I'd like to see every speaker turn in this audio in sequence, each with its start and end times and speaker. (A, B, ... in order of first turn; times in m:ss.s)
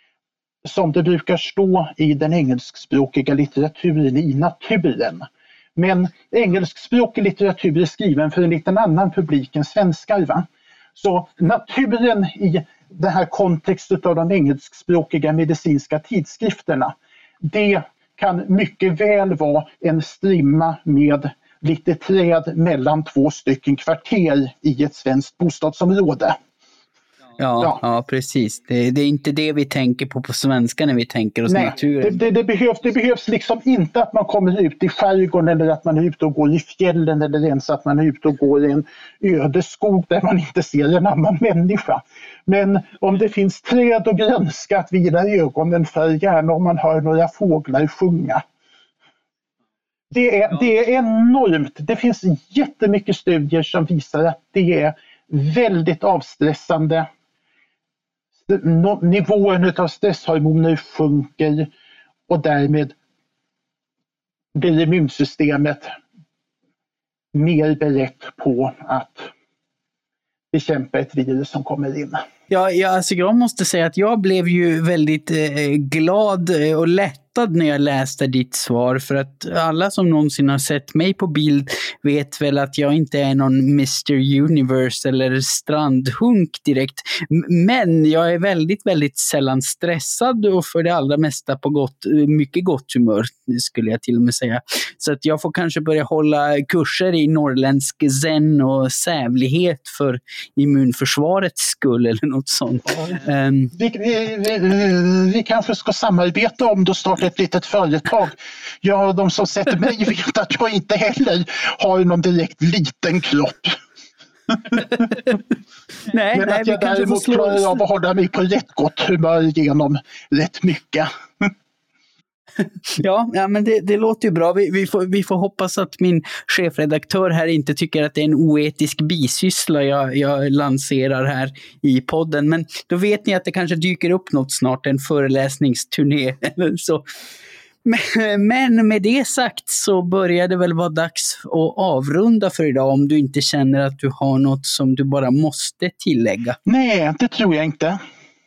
0:00.6-0:26.4 A
0:27.4-0:32.2 B
0:31.5-0:48.4 A
0:50.1-0:57.1 A
0:58.5-1:01.7 A
1:02.3-1:03.0 A
1:04.6-1:05.9 A
1:07.3-1:09.3 A
1:10.5-1:12.2 A
1:12.5-1:43.7 B
1:43.7-1:53.8 A
1:54.8-1:55.4 B
1:56.0-1:57.8 B
1:56.3-2:01.5 A
2:02.6-2:17.0 B
2:17.8-2:26.6 B
2:26.7-2:28.0 A